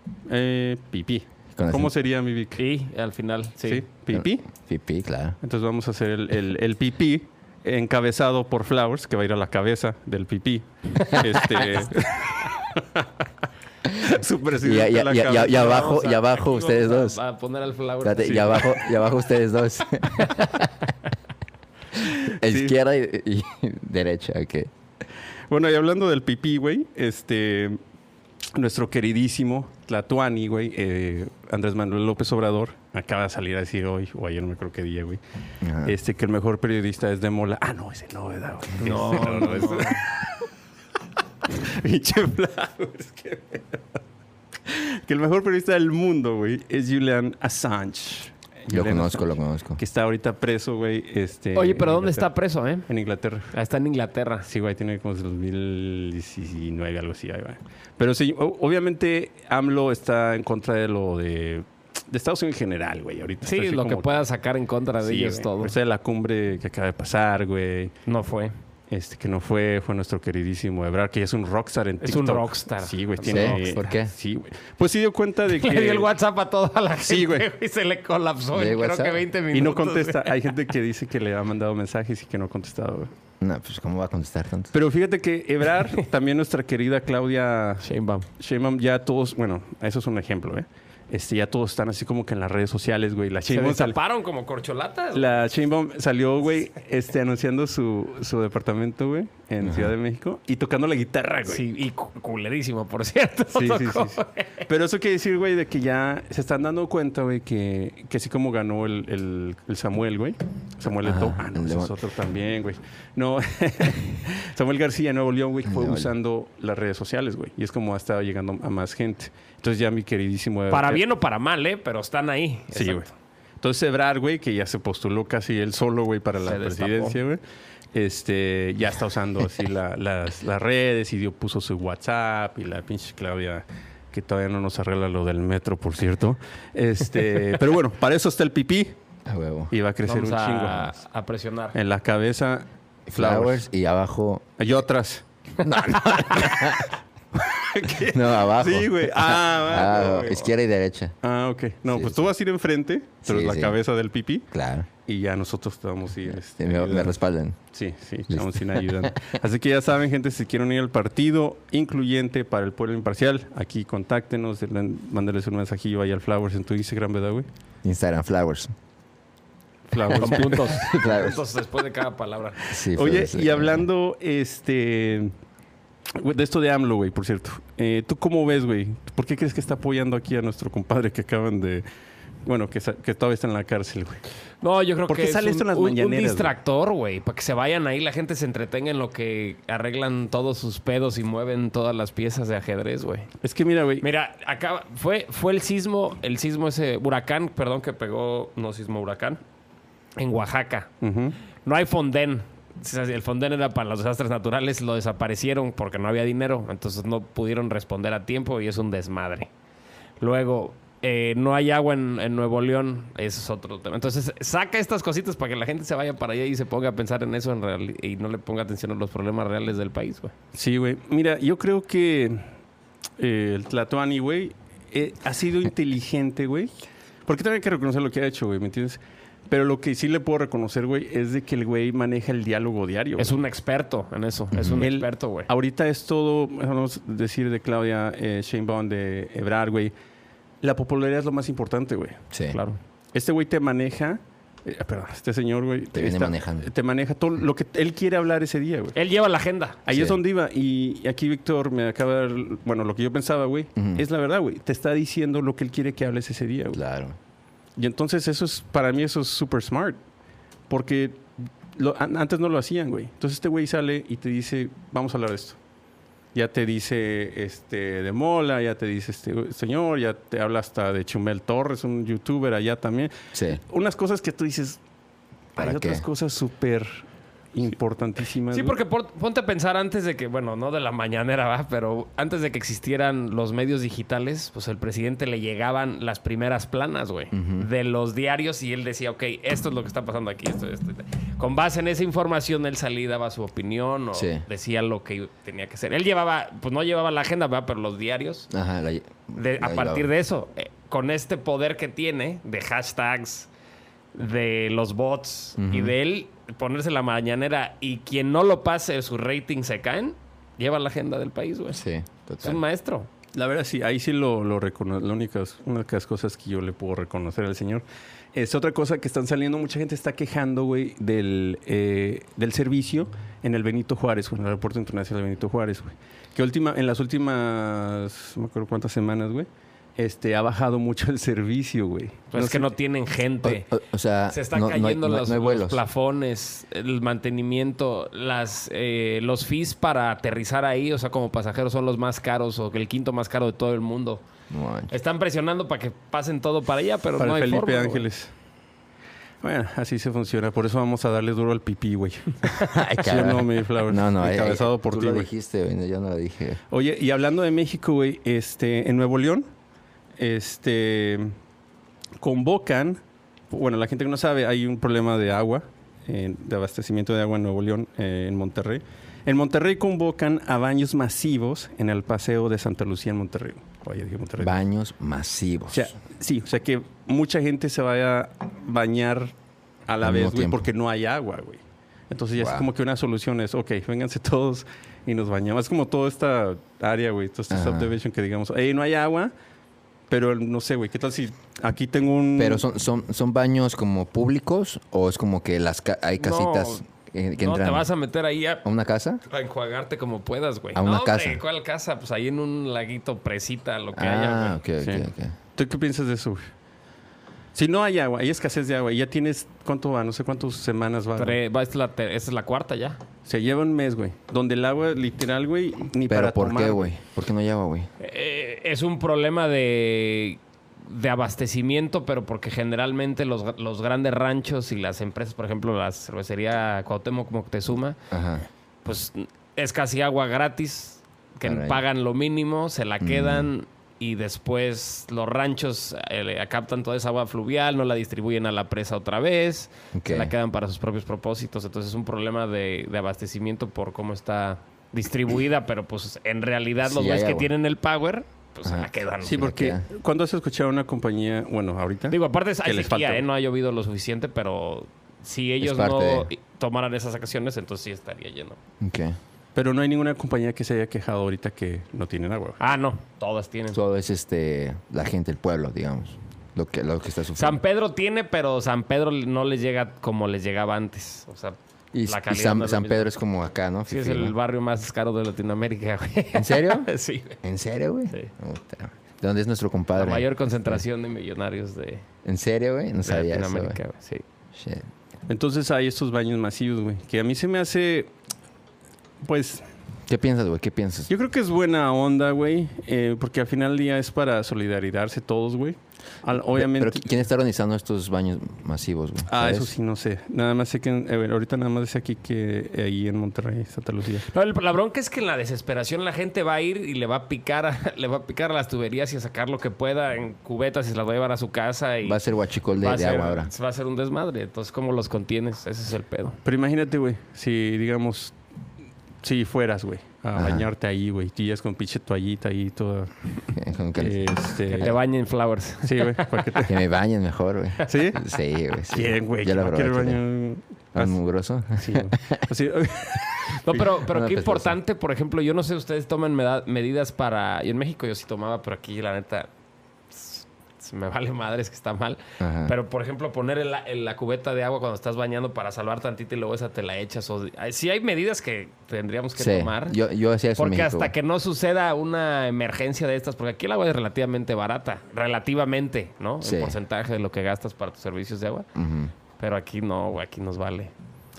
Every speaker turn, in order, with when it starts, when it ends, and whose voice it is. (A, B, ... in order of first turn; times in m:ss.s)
0:00.3-0:02.6 A
0:01.6-0:01.9 B
0:02.6-0:03.8 C
0:03.6-0:04.5 A
0:04.1-0:05.4 B
0:05.4-0:13.1 A
0:14.0-0:16.0 A
0:14.6-0:17.2 B
0:15.5-0:18.8 C
0:18.0-0:20.9 B
0:22.0-0:24.7 B
0:22.2-0:22.8 A
0:25.5-0:27.8 A
0:28.5-0:35.2 A
0:35.6-0:36.0 B
0:35.8-0:40.2 A
0:38.8-0:40.0 C
0:41.5-0:44.0 A
0:44.7-0:52.3 A
0:48.7-0:49.8 B
0:51.5-0:52.9 C
0:52.9-0:53.5 A
0:53.5-0:54.5 C
0:54.4-1:04.3 A
1:03.4-1:05.7 C
1:05.0-1:08.0 A
1:08.1-1:08.5 C
1:08.9-1:16.1 A
1:12.0-1:13.8 C
1:13.2-1:14.1 B
1:15.5-1:20.4 C
1:17.0-1:17.5 A
1:18.5-1:19.2 B
1:19.5-1:23.1 A
1:23.4-1:24.7 B
1:24.7-1:27.9 A
1:27.8-1:28.3 C
1:28.4-1:34.0 A
1:33.5-1:35.4 C
1:35.1-1:41.6 A
1:39.6-1:39.9 B
1:41.5-1:44.6 C
1:43.5-2:01.0 A
1:51.0-1:51.9 B
1:55.7-1:56.1 B
2:00.7-2:03.1 C
2:02.7-2:03.1 A
2:03.6-2:07.4 A
2:06.4-2:07.2 C
2:07.9-2:19.0 A
2:19.2-2:19.7 B
2:19.7-2:21.0 A
2:20.0-2:21.8 C
2:21.7-2:23.6 A
2:23.1-2:24.5 B
2:24.6-2:25.2 A
2:25.6-2:26.9 B
2:26.3-2:26.8 A
2:27.4-2:30.4 A
2:28.1-2:31.2 B
2:31.2-2:34.5 A
2:31.9-2:32.3 B
2:33.2-2:33.8 B
2:34.5-2:34.9 B
2:35.1-2:37.2 A
2:36.6-2:37.6 B
2:37.7-2:47.5 A
2:38.3-2:39.4 B
2:47.8-2:48.7 B
2:49.9-2:50.9 A
2:50.1-2:51.4 B
2:50.2-2:52.6 C
2:52.6-2:55.3 A
2:52.7-2:53.9 B
2:56.2-3:01.8 A
3:02.4-3:04.2 A
3:04.6-3:13.3 C
3:05.1-3:06.5 A
3:13.4-3:14.0 A
3:14.0-3:19.4 C
3:20.2-3:20.9 C
3:21.0-3:21.4 A
3:21.6-3:29.5 C
3:30.2-3:40.3 C
3:40.5-3:42.5 A
3:43.2-3:46.7 A
3:47.2-3:53.4 A
3:53.2-3:55.5 C
3:54.5-3:54.9 B
3:54.8-3:59.9 A
4:00.6-4:02.2 A
4:02.3-4:02.6 B
4:02.5-4:02.8 C
4:03.1-4:09.0 A
4:05.9-4:06.7 B
4:09.0-4:09.8 C
4:09.9-4:16.8 A
4:09.9-4:10.2 B
4:13.8-4:14.0 B
4:16.7-4:17.2 B
4:17.8-4:20.0 A
4:20.7-4:21.2 A
4:21.8-4:25.6 A
4:26.4-4:34.8 A
4:33.3-4:33.6 B
4:35.6-4:38.8 A
4:35.6-4:36.0 B
4:38.5-4:58.5 C
4:47.3-4:47.7 B
4:54.1-4:54.4 B
4:58.5-5:00.1 B
4:59.4-5:03.5 C
5:04.1-5:11.8 C
5:05.6-5:05.9 B
5:11.7-5:12.6 B
5:12.4-5:13.1 C
5:13.3-5:32.7 A
5:32.3-5:33.7 C
5:33.4-5:35.8 B
5:34.3-5:44.2 C
5:44.5-5:44.9 B
5:44.9-5:48.0 C
5:47.2-5:48.3 A
5:49.4-5:55.3 A
5:52.6-5:56.6 B
5:56.7-5:59.5 A
6:00.2-6:01.3 A
6:02.2-6:14.6 A
6:14.4-6:15.9 B
6:15.7-6:19.3 A
6:19.9-6:29.3 A
6:20.0-6:20.6 B
6:22.4-6:22.7 B
6:27.5-6:28.0 B
6:30.1-6:32.6 A
6:32.4-6:37.9 B
6:36.2-6:36.8 C
6:37.4-6:38.6 C
6:38.6-6:39.2 B
6:39.3-6:44.6 C
6:40.8-6:41.4 B
6:44.0-6:45.4 B
6:44.8-6:46.4 A
6:47.5-6:51.4 A
6:51.2-6:53.0 C
6:53.2-6:56.9 A
6:56.1-6:57.9 B
6:58.0-7:08.0 C
7:08.1-7:08.4 B
7:08.8-7:29.4 C
7:11.4-7:11.8 B
7:13.0-7:13.5 B
7:19.9-7:20.3 B
7:26.8-7:27.5 B
7:28.6-7:29.8 B
7:29.2-7:33.2 A
7:32.1-7:38.6 C
7:35.6-7:36.3 B
7:38.8-7:39.2 B
7:39.5-7:42.6 A
7:42.6-7:43.8 C
7:43.7-7:47.6 B
7:47.4-7:53.1 C
7:51.9-7:54.4 B
7:53.9-7:57.4 C
7:56.3-7:56.9 B
7:57.4-8:00.8 B
8:00.0-8:02.0 C
8:02.2-8:03.8 B
8:03.0-8:04.2 C
8:04.5-8:04.9 B
8:05.3-8:08.1 A
8:09.2-8:09.6 A
8:10.1-8:11.1 B
8:11.1-8:17.0 A
8:16.6-8:19.7 B
8:19.3-8:24.3 A
8:24.3-8:32.2 C
8:32.0-8:33.5 B
8:32.8-8:36.4 C
8:36.4-8:38.4 A
8:39.2-8:43.1 A
8:40.4-8:40.7 B
8:43.5-8:44.2 B
8:44.0-8:44.9 A
8:44.7-8:46.3 C
8:45.8-8:46.8 A
8:46.7-8:50.2 B
8:47.9-8:48.3 A
8:48.9-8:51.2 A
8:50.9-8:52.4 B
8:51.8-8:53.8 A
8:53.5-8:59.5 C
8:54.0-8:54.8 B
9:00.1-9:10.0 C
9:02.4-9:02.7 B
9:09.4-9:11.1 B
9:10.6-9:18.7 C
9:16.4-9:16.8 B
9:18.8-9:19.1 B
9:19.4-9:20.9 C